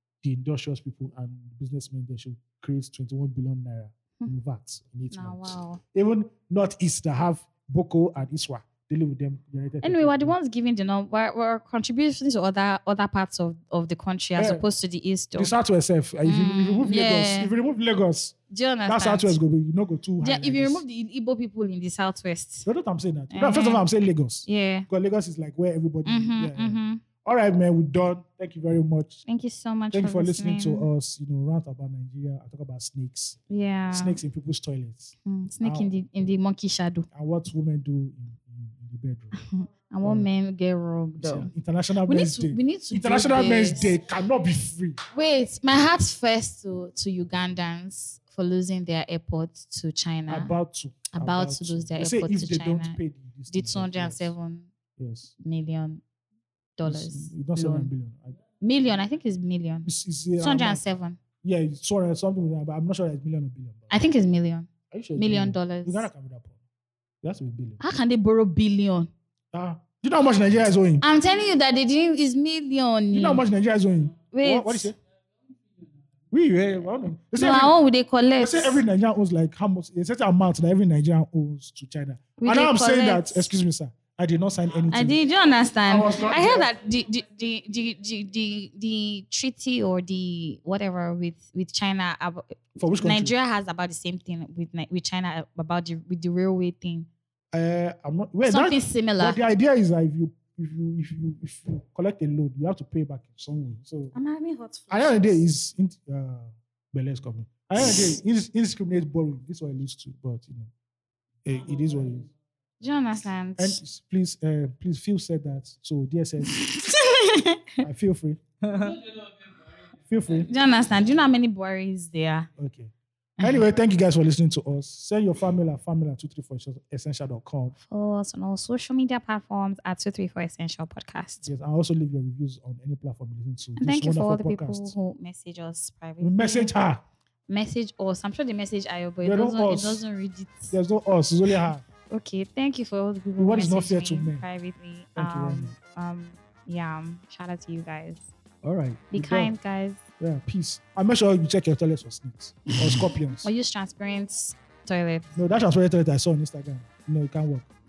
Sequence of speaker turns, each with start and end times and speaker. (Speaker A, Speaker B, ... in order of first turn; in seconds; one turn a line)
Speaker A: 0.2-10.3
Speaker B: 5.1-5.8
Speaker B: 9.8-15.5
Speaker A: 14.4-14.6
Speaker A: 15.3-18.4
Speaker B: 16.2-17.5
Speaker B: 18.5-19.4
Speaker A: 18.9-20.8
Speaker B: 20.2-22.7
Speaker A: 22.6-29.2
Speaker B: 23.3-23.8
Speaker B: 24.4-24.9
Speaker B: 26.0-27.0
Speaker B: 29.2-30.9
Speaker A: 29.9-33.4
Speaker B: 33.5-34.2
Speaker A: 33.9-35.9
Speaker B: 35.2-37.0
Speaker A: 37.1-39.4
Speaker B: 39.3-41.5
Speaker A: 40.0-40.3
Speaker A: 41.2-45.0
Speaker B: 42.0-43.9
Speaker B: 45.1-50.5
Speaker A: 50.3-54.3
Speaker B: 51.1-53.0
Speaker B: 53.5-54.7
Speaker A: 55.0-55.3
Speaker B: 55.4-56.0
Speaker B: 56.8-57.9
Speaker A: 56.8-58.4
Speaker B: 58.6-59.9
Speaker A: 59.8-60.8
Speaker B: 60.4-61.2
Speaker A: 61.4-63.9
Speaker B: 63.9-66.1
Speaker A: 64.9-66.6
Speaker A: 67.2-67.8
Speaker B: 67.8-69.1
Speaker A: 69.5-71.0
Speaker B: 71.0-73.4
Speaker A: 73.1-75.0
Speaker B: 74.3-74.9
Speaker A: 76.3-77.8
Speaker B: 77.3-78.8
Speaker A: 78.4-85.2
Speaker B: 82.4-83.5
Speaker B: 84.9-97.1
Speaker A: 85.9-86.7
Speaker A: 92.8-93.3
Speaker A: 97.5-104.1
Speaker B: 98.5-99.4
Speaker B: 104.1-105.3
Speaker A: 104.9-110.7
Speaker A: 111.4-112.3
Speaker B: 112.8-113.8
Speaker A: 113.6-116.6
Speaker B: 116.4-117.8
Speaker A: 117.8-118.4
Speaker B: 118.6-119.0
Speaker A: 120.1-120.5
Speaker B: 120.3-122.5
Speaker A: 122.6-127.7
Speaker B: 123.4-123.6
Speaker B: 127.8-131.5
Speaker A: 131.4-134.9
Speaker B: 133.8-136.7
Speaker A: 136.2-137.0
Speaker B: 137.5-140.7
Speaker A: 139.2-140.0
Speaker A: 140.7-141.8
Speaker B: 142.1-148.3
Speaker A: 143.4-144.4
Speaker A: 145.2-145.7
Speaker A: 148.6-149.5
Speaker B: 149.1-150.0
Speaker A: 150.2-153.5
Speaker B: 152.9-155.3
Speaker A: 155.3-157.7